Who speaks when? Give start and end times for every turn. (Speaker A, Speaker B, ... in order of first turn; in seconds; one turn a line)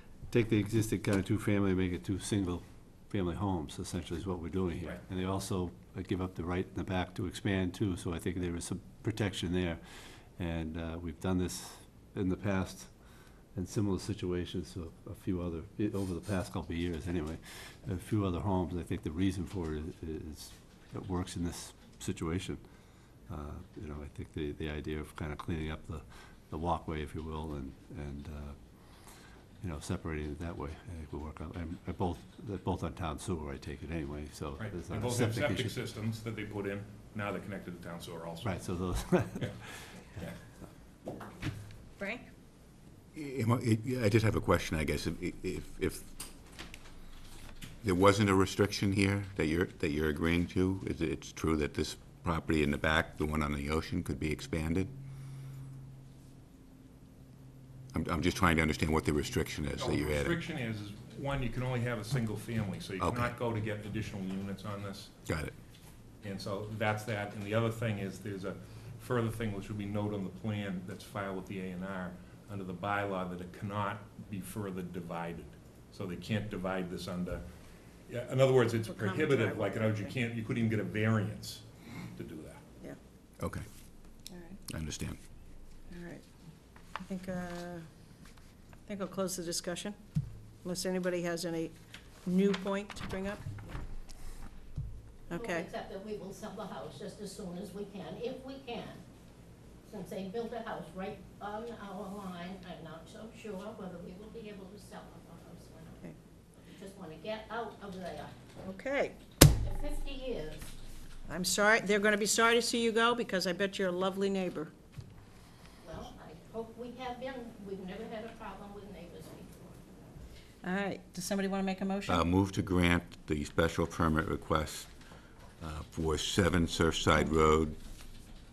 Speaker A: 0.3-9.8
Speaker A: 10.4-12.9
Speaker A: 13.5-22.6
Speaker A: 23.3-29.1
Speaker A: 29.6-35.7
Speaker B: 34.6-38.6
Speaker A: 38.4-39.9
Speaker C: 42.0-42.3
Speaker D: 43.1-46.1
Speaker D: 47.8-54.9
Speaker D: 57.9-60.4
Speaker B: 59.8-65.1
Speaker D: 63.0-63.4
Speaker D: 65.3-65.5
Speaker B: 66.2-77.4
Speaker B: 78.1-82.6
Speaker C: 78.8-80.2
Speaker D: 83.4-83.6
Speaker C: 84.3-84.6
Speaker D: 84.7-85.2
Speaker C: 85.9-86.2
Speaker C: 87.0-87.9
Speaker C: 88.9-90.0
Speaker C: 90.6-91.7
Speaker C: 92.2-93.4
Speaker C: 95.3-95.7
Speaker E: 95.3-99.0
Speaker E: 99.8-106.1
Speaker E: 106.7-108.3
Speaker C: 108.6-109.2
Speaker E: 109.6-110.7
Speaker C: 111.3-114.7
Speaker E: 115.8-120.0
Speaker C: 120.6-122.2
Speaker D: 122.1-124.9
Speaker D: 125.6-127.8